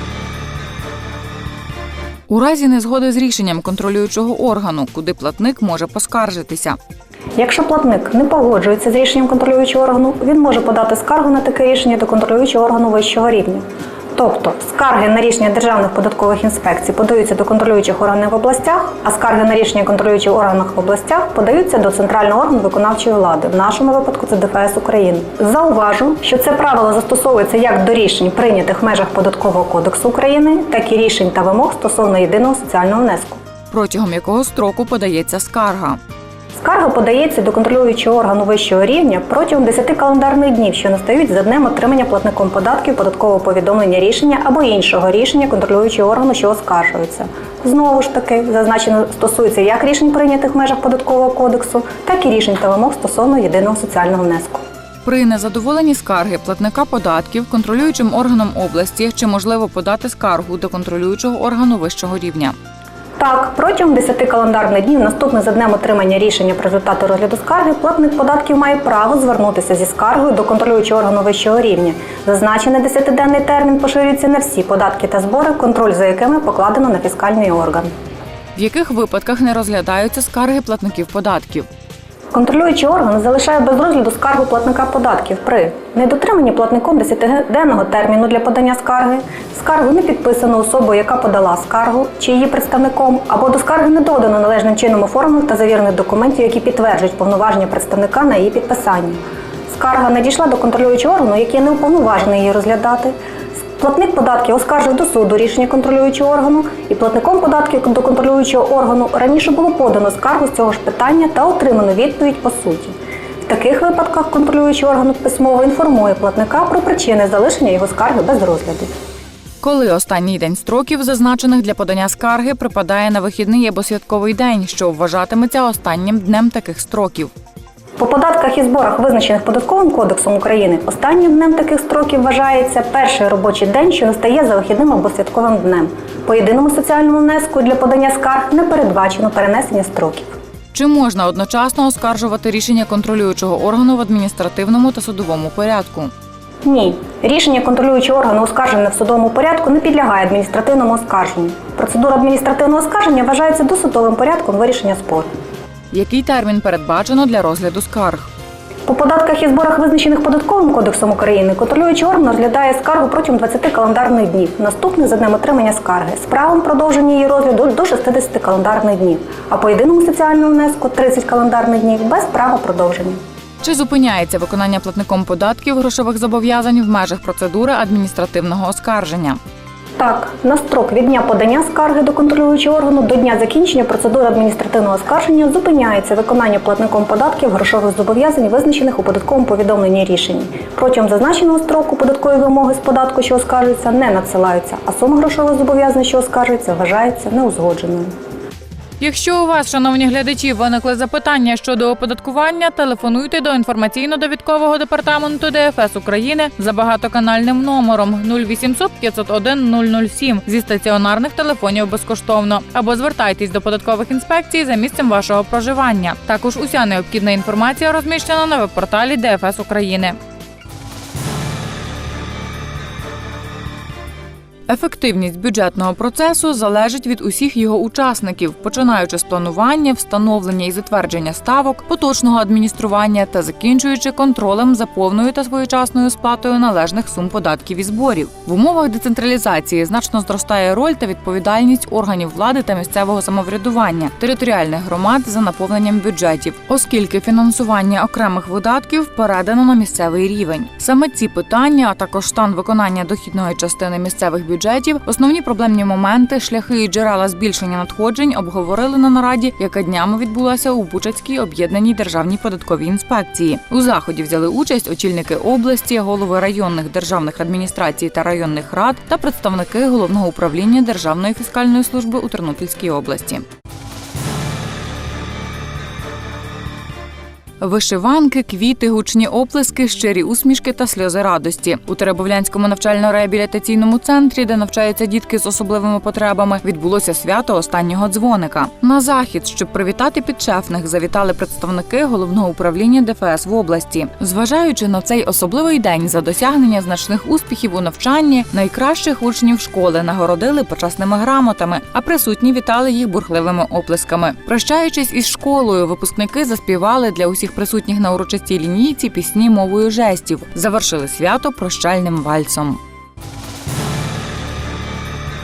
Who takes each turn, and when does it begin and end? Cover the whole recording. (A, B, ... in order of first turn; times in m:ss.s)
0:02.3-0:06.8 A
0:07.4-0:13.6 B
0:14.2-0:33.4 B
0:33.7-0:36.0 A
0:36.6-0:54.6 B
0:55.0-1:02.6 A
1:03.2-1:17.9 B
1:18.6-1:21.7 A
1:22.3-1:52.9 B
1:53.5-1:58.9 B
1:59.6-2:07.3 A
2:08.0-2:20.3 B
2:20.7-2:26.1 A
2:26.6-2:35.3 B
2:35.9-2:38.3 A
2:38.9-2:53.2 B
2:53.6-2:59.4 A
3:00.0-3:18.1 B
3:19.0-3:40.2 A
3:44.7-4:33.4 A
4:37.6-5:12.8 A